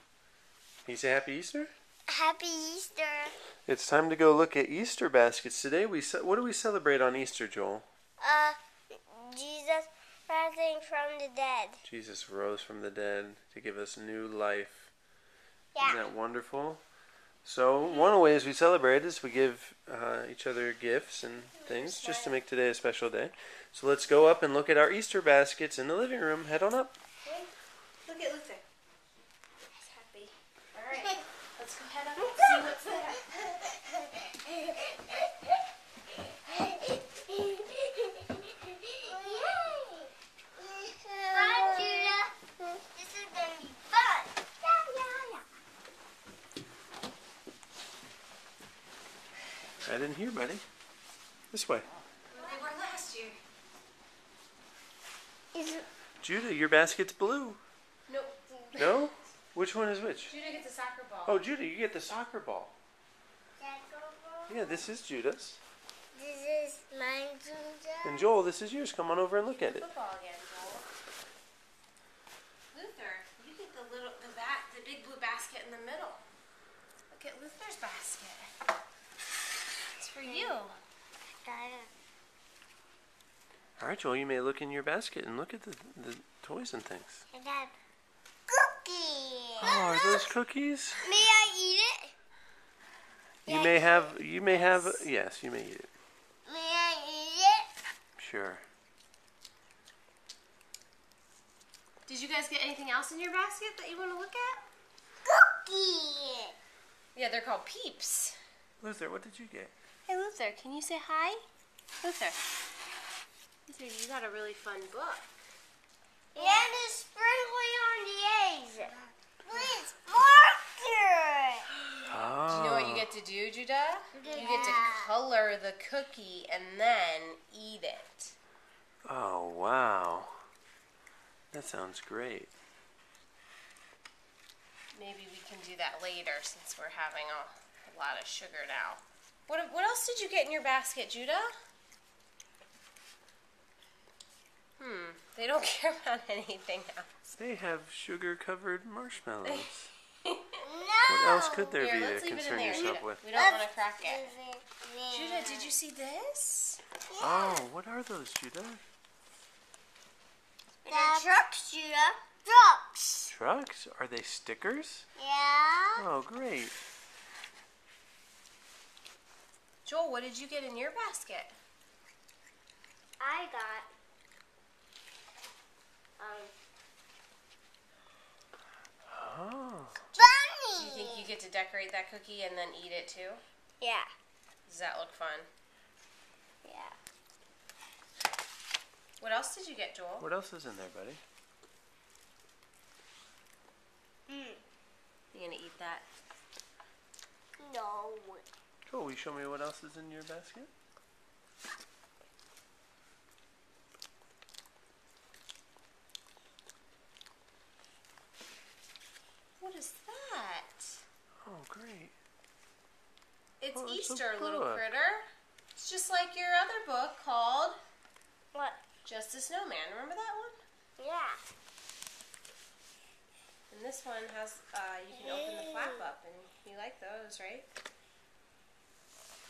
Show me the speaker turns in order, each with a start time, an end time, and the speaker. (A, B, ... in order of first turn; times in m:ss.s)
0:00.8-0:01.7 A
0:02.1-0:03.3 B
0:03.6-0:07.8 A
0:08.2-0:11.8 B
0:11.8-0:14.9 A
0:15.7-0:16.0 B
0:15.8-0:16.8 A
0:17.4-0:27.0 A
0:21.5-0:22.4 C
0:28.0-0:28.6 C
0:29.9-0:33.9 C
0:32.2-0:32.7 B
0:37.3-0:39.6 C
0:39.0-0:40.1 B
0:40.7-0:42.2 C
0:41.3-0:45.4 B
0:49.8-0:50.6 A
0:51.5-0:51.9 A
0:52.3-0:53.4 C
0:55.5-0:55.8 B
0:56.2-0:57.6 A
0:58.1-0:59.1 C
0:58.8-1:00.3 A
1:00.3-1:01.4 C
1:01.2-1:02.7 A
1:03.6-1:04.8 B
1:04.5-1:05.6 A
1:06.1-1:08.3 B
1:08.0-1:09.8 A
1:09.6-1:10.8 C
1:12.7-1:16.2 C
1:17.1-1:18.5 C
1:20.0-1:20.8 C
1:20.2-1:20.6 B
1:21.4-1:21.9 B
1:23.8-1:27.2 A
1:27.3-1:27.7 B
1:28.5-1:30.3 B
1:29.6-1:31.0 A
1:31.0-1:32.1 B
1:33.4-1:35.0 B
1:33.4-1:35.9 A
1:36.4-1:37.7 B
1:38.2-1:38.6 A
1:42.1-1:44.6 C
1:45.2-1:46.5 B
1:47.1-1:48.4 C
1:48.8-1:49.7 A
1:50.1-1:51.4 C
1:52.0-1:52.4 C
1:53.7-1:55.3 C
1:56.3-1:56.9 C
1:56.3-2:01.7 B
1:59.5-1:59.8 C
2:02.1-2:03.1 A
2:02.5-2:08.3 C
2:04.1-2:05.1 B
2:09.0-2:10.4 A
2:11.5-2:12.5 A
2:14.9-2:21.5 C
2:24.8-2:27.1 C
2:27.3-2:29.9 A
2:30.2-2:30.6 C
2:30.6-2:31.8 B
2:31.1-2:33.2 A
2:31.8-2:34.3 C
2:32.7-2:35.8 B
2:35.1-2:36.8 C
2:37.1-2:37.6 B
2:37.2-2:38.8 A
2:40.8-2:41.3 C
2:40.9-2:43.3 B
2:43.3-2:45.0 A
2:45.2-2:46.0 B
2:46.0-2:46.8 A
2:49.8-2:51.5 C
2:53.2-2:53.9 B
2:56.2-2:56.5 B
2:59.1-3:00.0 A
3:00.1-3:01.3 B
3:00.8-3:03.4 C
3:03.8-3:04.1 B
3:04.7-3:05.5 C
3:06.6-3:07.0 B
3:09.2-3:10.3 C
3:10.2-3:11.2 A
3:14.3-3:14.6 B
3:15.3-3:16.1 C
3:17.6-3:18.4 B
3:18.8-3:20.7 A
3:29.6-3:31.0 C
3:31.4-3:32.1 A
3:33.6-3:35.2 C
3:33.7-3:34.8 A
3:35.8-3:37.8 C
3:38.5-3:38.8 B
3:39.0-3:40.6 C
3:41.0-3:41.4 B
3:43.7-3:47.7 C
3:45.1-3:46.1 B